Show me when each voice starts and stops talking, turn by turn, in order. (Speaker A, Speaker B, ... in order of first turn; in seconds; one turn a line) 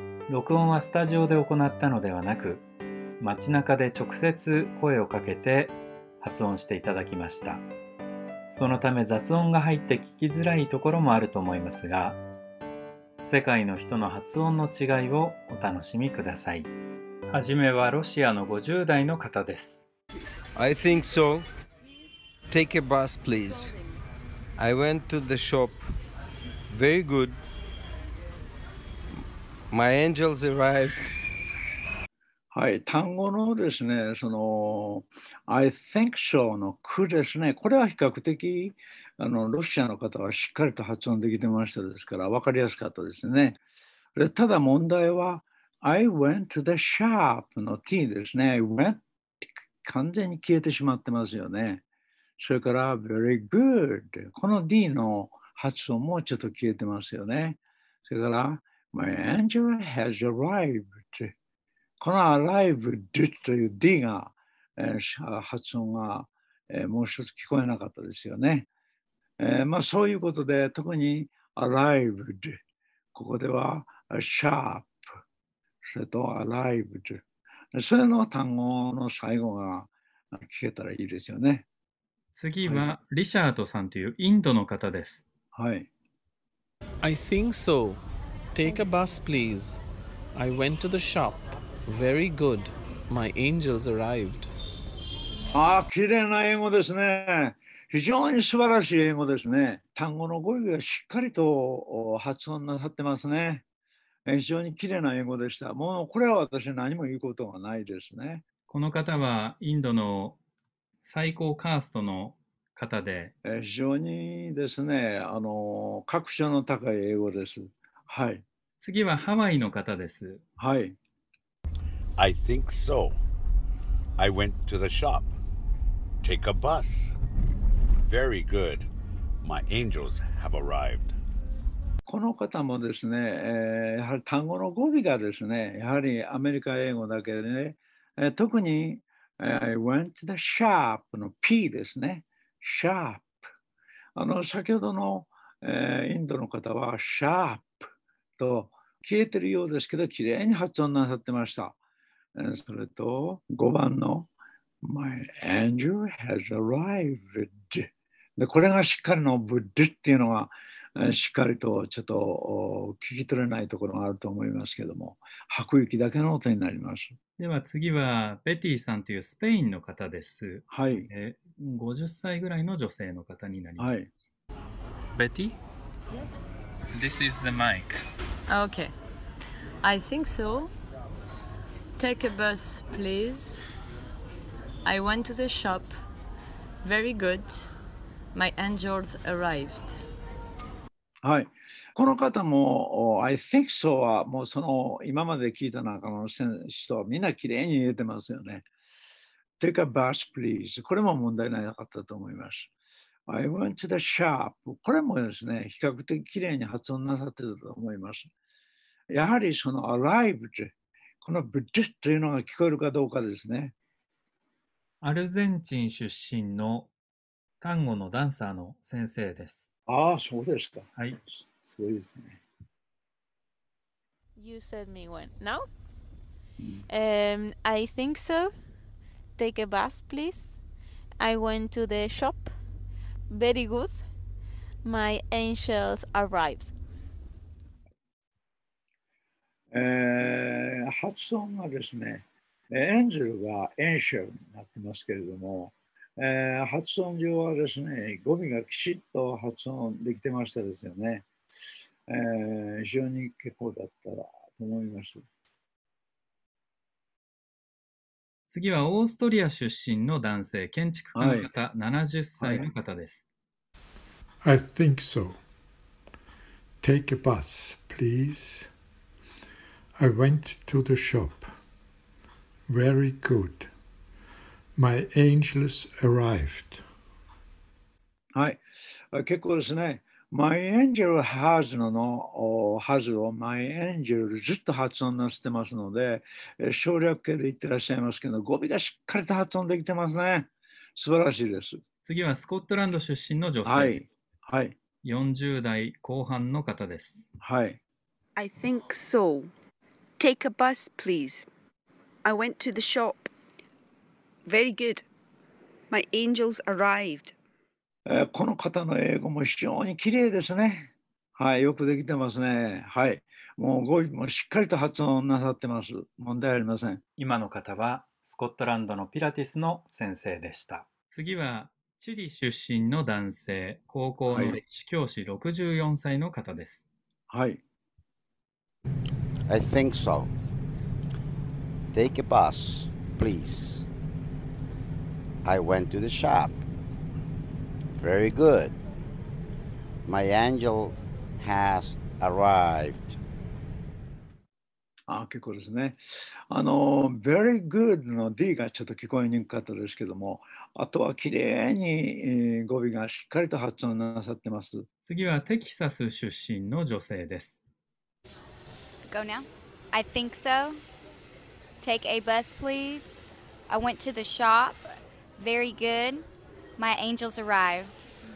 Speaker A: 0.3-2.6
Speaker A: 3.2-7.6
Speaker A: 8.5-12.2
Speaker A: 13.2-16.7
Speaker A: 17.3-19.8
Speaker B: 20.6-21.4
Speaker B: 22.5-23.5
Speaker B: 24.6-25.7
Speaker B: 26.7-27.3
Speaker B: 29.7-30.9
Speaker C: 32.5-43.6
Speaker C: 44.1-51.8
Speaker C: 52.4-61.3
Speaker C: 62.0-68.7
Speaker C: 69.4-72.6
Speaker C: 73.1-75.0
Speaker C: 75.8-77.2
Speaker C: 77.7-81.6
Speaker A: 82.3-85.2
Speaker C: 82.7-82.9
Speaker C: 85.5-85.8
Speaker D: 87.0-88.0
Speaker D: 88.5-89.8
Speaker D: 90.3-94.5
Speaker C: 95.5-103.6
Speaker C: 104.3-108.4
Speaker A: 108.7-110.4
Speaker A: 111.0-113.3
Speaker C: 113.4-118.4
Speaker A: 118.8-120.4
Speaker C: 120.6-121.0
Speaker E: 122.2-123.2
Speaker E: 124.2-125.3
Speaker E: 126.2-127.1
Speaker E: 128.1-128.9
Speaker E: 129.4-131.2
Speaker C: 132.1-143.4
Speaker C: 144.2-147.9
Speaker C: 148.4-151.7
Speaker C: 152.4-154.3
Speaker C: 154.8-167.2
Speaker A: 167.4-173.9
Speaker C: 170.7-171.1
Speaker C: 173.8-174.1
Speaker A: 175.1-175.6
Speaker F: 176.1-176.4
Speaker A: 176.9-178.0
Speaker F: 178.5-178.9
Speaker F: 179.8-180.7
Speaker F: 182.0-183.7
Speaker F: 184.8-185.9
Speaker F: 186.8-187.7
Speaker F: 188.3-190.0
Speaker C: 191.2-198.7
Speaker C: 199.6-202.7
Speaker C: 203.3-208.3
Speaker C: 209.1-213.7
Speaker A: 215.0-216.9
Speaker A: 217.6-219.7
Speaker C: 219.9-222.4
Speaker G: 224.3-225.7
Speaker C: 226.6-226.8
Speaker G: 226.9-228.5
Speaker G: 229.4-230.6
Speaker G: 231.2-232.5
Speaker G: 233.3-234.0
Speaker G: 234.8-236.7
Speaker C: 239.7-251.2
Speaker C: 252.1-255.2
Speaker A: 258.5-263.2
Speaker C: 261.1-261.5
Speaker C: 262.4-262.7
Speaker H: 264.4-265.4
Speaker H: 266.8-268.7
Speaker H: 270.0-271.5
Speaker H: 272.7-273.7
Speaker H: 274.8-276.8
Speaker C: 278.3-278.6
Speaker C: 279.1-291.8
Speaker A: 292.0-294.0
Speaker C: 293.6-294.7
Speaker A: 295.0-297.2
Speaker C: 297.4-297.8
Speaker I: 298.4-299.5
Speaker I: 300.2-301.4
Speaker I: 302.2-303.3
Speaker I: 304.4-305.0
Speaker I: 305.9-307.3
Speaker C: 308.1-317.0
Speaker A: 317.2-326.8
Speaker C: 324.3-324.6
Speaker C: 327.3-327.6
Speaker J: 329.5-330.3
Speaker J: 331.9-333.8
Speaker J: 335.4-336.5
Speaker J: 337.9-338.7
Speaker J: 340.0-343.2
Speaker C: 345.1-354.9
Speaker A: 355.0-357.6
Speaker K: 359.1-360.8
Speaker K: 361.8-363.1
Speaker K: 363.7-366.2
Speaker K: 366.8-367.9